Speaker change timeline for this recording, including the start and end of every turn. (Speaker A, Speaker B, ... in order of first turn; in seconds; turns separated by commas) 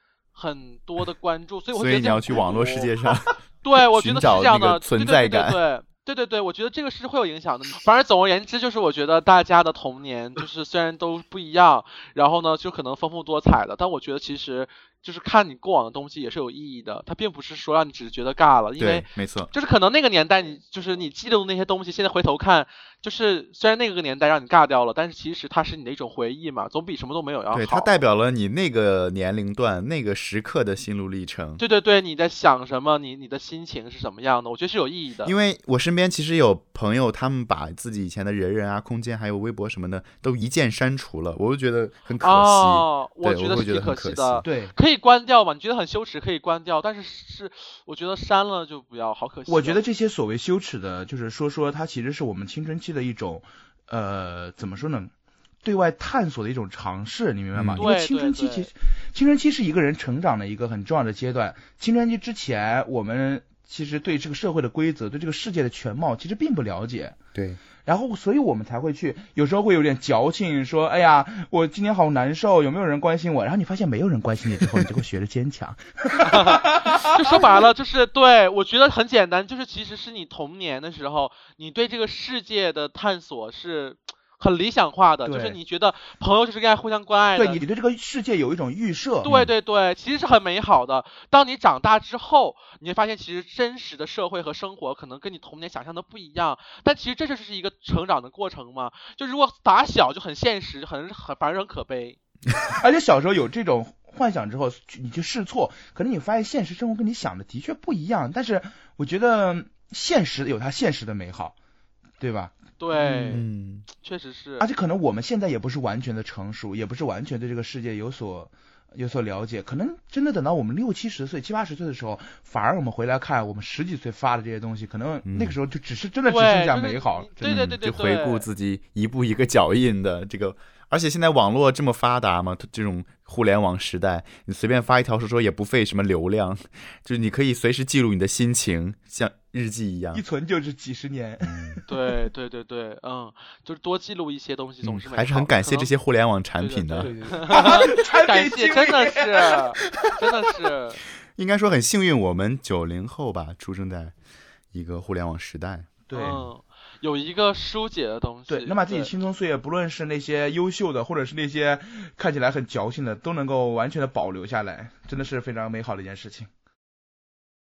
Speaker A: 0.3-2.9, Speaker B: 1.7-5.6, Speaker A: 3.6-27.9, Speaker B: 18.8-19.5, Speaker B: 27.5-31.6, Speaker A: 31.6-35.3, Speaker B: 35.2-44.5, Speaker A: 42.2-49.8, Speaker C: 44.4-44.7, Speaker C: 49.5-55.1, Speaker C: 55.6-67.2, Speaker B: 57.5-57.9, Speaker A: 57.8-58.7, Speaker B: 67.3-67.6, Speaker C: 67.8-77.6, Speaker A: 76.2-87.6, Speaker C: 85.2-85.6, Speaker C: 87.3-89.3, Speaker A: 89.2-102.2, Speaker B: 89.2-89.5, Speaker C: 102.8-111.5, Speaker C: 112.2-113.4, Speaker A: 112.8-113.4, Speaker B: 113.3-113.9, Speaker A: 114.0-114.7, Speaker C: 114.6-127.6, Speaker B: 125.2-125.6, Speaker A: 126.3-128.5, Speaker B: 127.4-140.2, Speaker C: 140.1-141.8, Speaker B: 141.4-141.8, Speaker A: 141.9-145.9, Speaker B: 144.8-147.1, Speaker A: 146.6-151.0, Speaker C: 147.0-149.6, Speaker B: 151.3-154.1, Speaker B: 154.7-155.9, Speaker C: 156.1-156.5, Speaker A: 156.1-159.1, Speaker C: 158.5-166.5